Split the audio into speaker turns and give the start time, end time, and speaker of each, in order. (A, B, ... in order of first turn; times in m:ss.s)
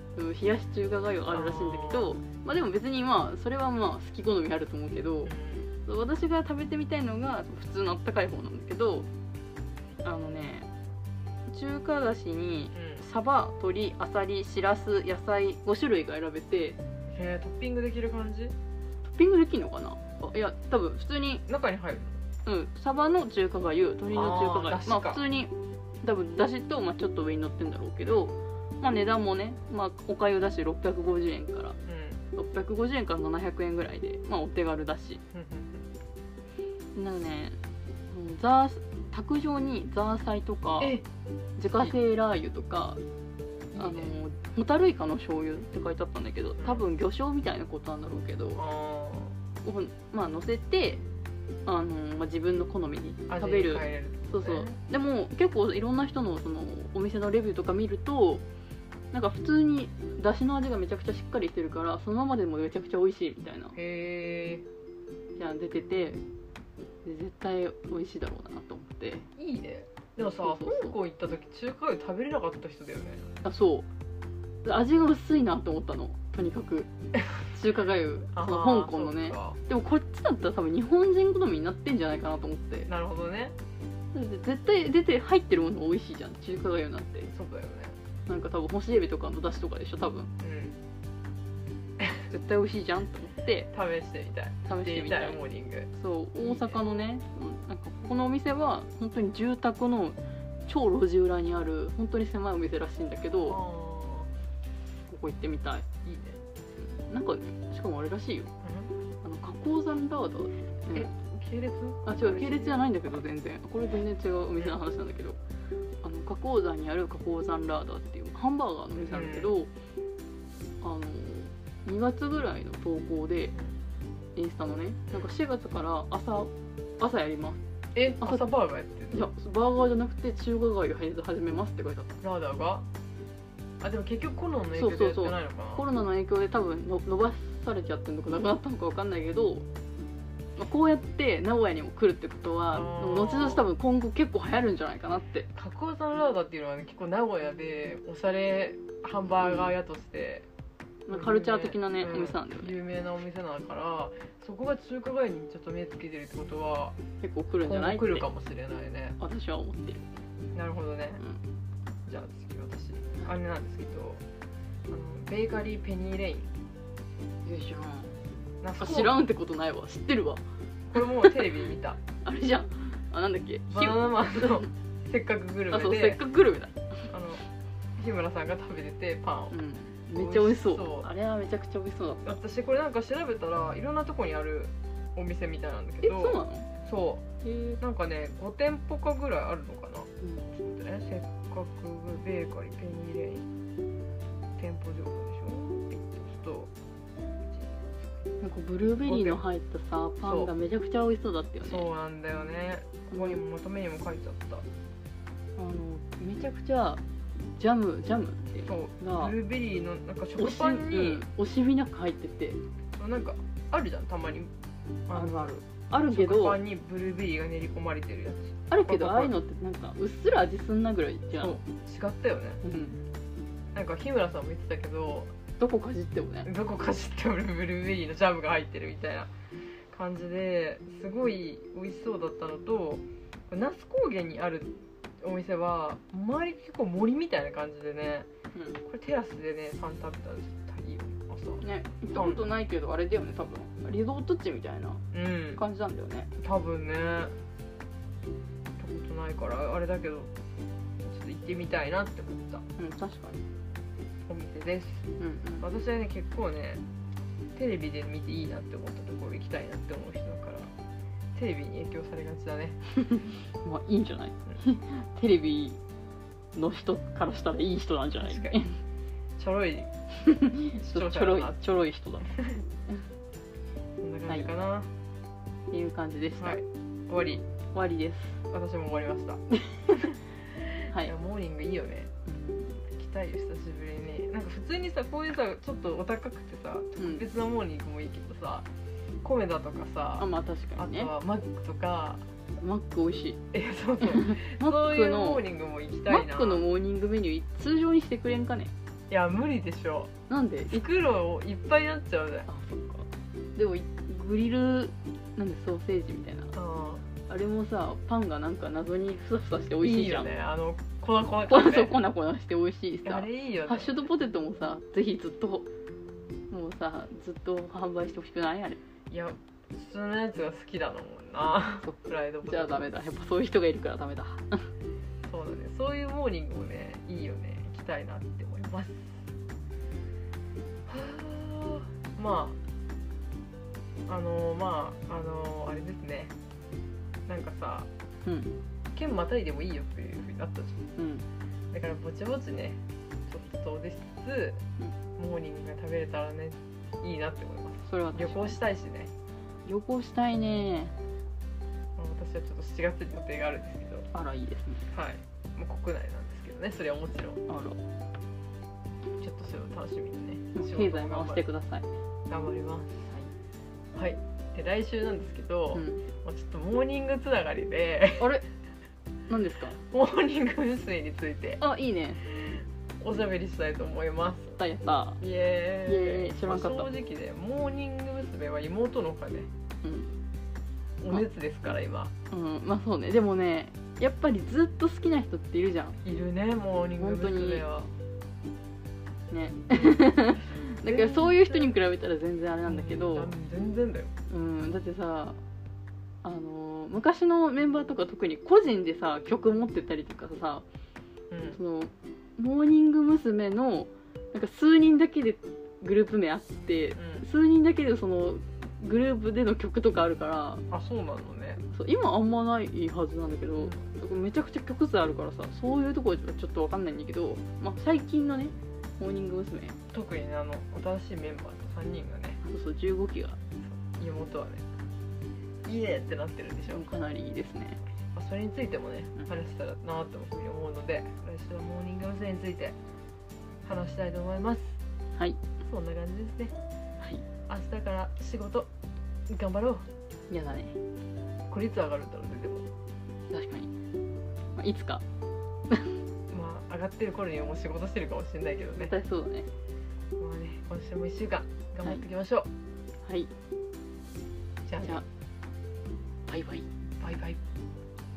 0:00.2-0:05.3 A
0:01.3-0:02.1 B
0:05.3-0:05.7 B
0:05.9-0:09.1 A
0:10.0-0:10.7 A
0:11.5-0:16.8 A
0:12.7-0:13.0 B
0:17.1-0:18.6 B
0:19.0-0:21.4 A
0:21.5-0:22.2 B
0:22.4-0:31.8 A
0:24.1-0:25.2 B
0:28.0-0:28.3 B
0:31.9-0:32.2 B
0:32.4-0:35.2 A
0:35.3-0:35.9 B
0:37.0-0:37.6 A
0:38.1-0:41.0 A
0:40.8-0:41.0 B
0:41.6-0:43.0 A
0:43.7-0:44.1 B
0:43.7-0:48.6 A
0:46.6-0:46.8 B
0:48.6-0:49.3 B
0:49.6-0:51.0 A
0:51.7-0:58.4 A
0:53.3-0:54.8 B
0:59.1-1:03.8 A
1:03.8-1:04.6 B
1:05.4-1:06.2 A
1:07.0-1:09.3 A
1:09.4-1:13.3 B
1:10.2-1:11.0 A
1:13.4-1:13.9 A
1:14.6-1:22.9 A
1:18.3-1:19.6 B
1:22.9-1:23.6 B
1:24.1-1:27.3 A
1:27.3-1:28.0 B
1:28.3-1:30.3 A
1:30.4-1:30.8 B
1:32.0-1:32.2 B
1:32.3-1:33.7 A
1:33.7-1:36.8 B
1:34.7-1:35.4 A
1:35.9-1:43.6 A
1:43.5-1:44.3 B
1:45.1-1:45.8 A
1:46.0-1:46.4 B
1:46.8-1:48.5 A
1:48.6-1:48.9 B
1:49.2-1:51.1 A
1:50.9-1:53.1 B
1:52.0-1:55.4 A
1:56.0-1:59.7 A
1:59.0-1:59.5 B
2:00.8-2:03.6 A
2:04.4-2:07.6 A
2:08.0-2:09.3 B
2:09.1-2:12.2 A
2:12.2-2:12.9 B
2:13.8-2:15.9 B
2:14.8-2:19.7 A
2:20.6-2:25.5 A
2:22.7-2:23.7 B
2:25.6-2:30.5 B
2:29.4-2:29.7 A
2:31.1-2:32.7 A
2:31.1-2:37.0 B
2:37.2-2:38.3 A
2:37.6-2:39.2 B
2:39.2-2:40.2 A
2:40.5-2:41.2 B
2:42.0-2:44.2 B
2:44.9-2:46.5 B
2:47.4-2:48.1 A
2:48.6-2:49.2 B
2:48.8-2:50.4 A
2:50.9-2:52.0 B
2:52.2-2:54.7 A
2:53.7-2:56.2 B
2:55.7-2:57.1 A
2:57.1-2:57.4 B
2:58.0-2:59.6 B
2:59.5-3:02.4 A
3:00.2-3:01.1 B
3:02.2-3:07.2 B
3:06.0-3:06.7 A
3:07.4-3:07.8 A
3:07.8-3:13.5 B
3:10.2-3:10.5 A
3:14.6-3:16.7 B
3:17.5-3:18.0 B
3:18.4-3:21.9 A
3:19.0-3:19.4 B
3:20.2-3:20.5 B
3:21.6-3:24.7 B
3:23.1-3:23.4 A
3:25.6-3:29.3 A
3:28.7-3:31.2 B
3:30.4-3:32.6 A
3:33.0-3:34.5 B
3:35.1-3:39.3 B
3:35.1-3:36.6 A
3:38.7-3:41.6 A
3:41.4-3:42.6 B
3:42.6-3:43.0 A
3:43.7-3:45.3 B
3:45.6-3:46.5 A
3:46.4-3:49.3 B
3:49.9-3:58.3 B
3:58.8-4:02.5 B
4:01.6-4:05.0 A
4:05.1-4:05.6 B
4:05.6-4:06.3 A
4:06.4-4:07.3 B
4:08.8-4:10.3 B
4:11.0-4:12.6 B
4:12.8-4:13.4 A
4:14.3-4:15.1 B
4:15.2-4:15.7 A
4:15.6-4:16.8 B
4:17.6-4:20.7 B
4:21.4-4:22.8 B
4:23.0-4:25.8 A
4:26.6-4:28.8 A
4:28.2-4:28.5 B
4:29.4-4:29.9 B
4:30.2-4:33.0 A
4:30.8-4:31.6 B
4:32.3-4:32.6 B
4:34.0-4:34.9 B
4:35.7-4:36.6 A
4:36.4-4:37.4 B
4:37.7-4:38.4 A
4:38.5-4:39.4 B
4:39.6-4:40.2 A
4:40.7-4:42.1 B
4:42.3-4:42.8 A
4:42.9-4:48.7 B
4:47.0-4:47.2 A
4:49.2-4:52.2 B
4:50.2-4:51.1 A
4:52.6-4:53.4 A
4:53.5-4:56.6 B
4:54.0-4:55.4 A
4:56.1-4:58.7 A
4:59.1-5:00.1 B
5:00.3-5:00.8 A
5:00.7-5:02.5 B
5:02.5-5:06.5 A
5:06.5-5:07.0 B
5:07.3-5:10.3 A
5:09.8-5:12.0 B
5:11.5-5:15.7 A
5:13.0-5:14.1 B
5:16.5-5:18.8 A
5:19.1-5:22.9 B
5:21.8-5:24.7 A
5:25.3-5:29.3 B
5:30.9-5:32.6 B
5:34.1-5:36.3 B
5:37.3-5:37.9 B
5:38.2-5:38.5 A
5:39.0-5:40.8 B
5:41.0-5:41.3 A
5:41.7-5:44.6 B
5:45.2-5:49.1 B
5:47.9-5:48.6 A
5:49.6-5:50.9 A
5:52.0-5:54.1 B
5:54.1-5:54.9 A
5:54.9-5:57.4 B
5:57.5-5:57.8 A
5:59.2-6:01.4 B
6:00.6-6:01.9 A
6:02.3-6:03.1 B
6:04.0-6:08.3 B
6:05.7-6:06.0 A
6:08.2-6:08.4 A
6:09.3-6:09.8 A
6:09.9-6:11.6 B
6:11.6-6:12.2 A
6:12.2-6:14.6 B
6:14.6-6:15.2 A
6:15.2-6:19.5 B
6:15.8-6:16.9 A
6:19.8-6:20.1 A
6:21.0-6:22.1 B
6:22.3-6:26.0 A
6:26.0-6:27.9 B
6:27.0-6:27.6 A
6:29.3-6:33.3 A
6:29.8-6:30.0 B
6:30.8-6:31.8 B
6:32.6-6:34.1 B
6:34.3-6:35.4 A
6:36.2-6:40.6 A
6:41.3-6:41.6 B
6:41.5-6:50.6 A
6:47.0-6:47.2 B
6:50.7-6:51.6 B
6:51.7-6:59.8 A
6:59.9-7:02.4 B
7:02.4-7:03.4 A
7:03.7-7:04.6 B
7:05.6-7:06.9 B
7:06.7-7:07.8 A
7:08.1-7:12.8 B
7:13.6-7:14.8 B
7:15.2-7:15.4 A
7:15.6-7:16.5 B
7:17.5-7:18.7 B
7:19.3-7:19.9 B
7:20.3-7:20.8 A
7:21.5-7:22.6 B
7:23.3-7:23.7 A
7:24.6-7:25.0 A
7:25.7-7:26.0 A
7:26.3-7:28.9 B
7:28.8-7:29.5 A
7:30.2-7:32.5 B
7:33.0-7:33.3 A
7:34.7-7:35.0 B
7:36.3-7:36.7 A
7:37.0-7:37.4 B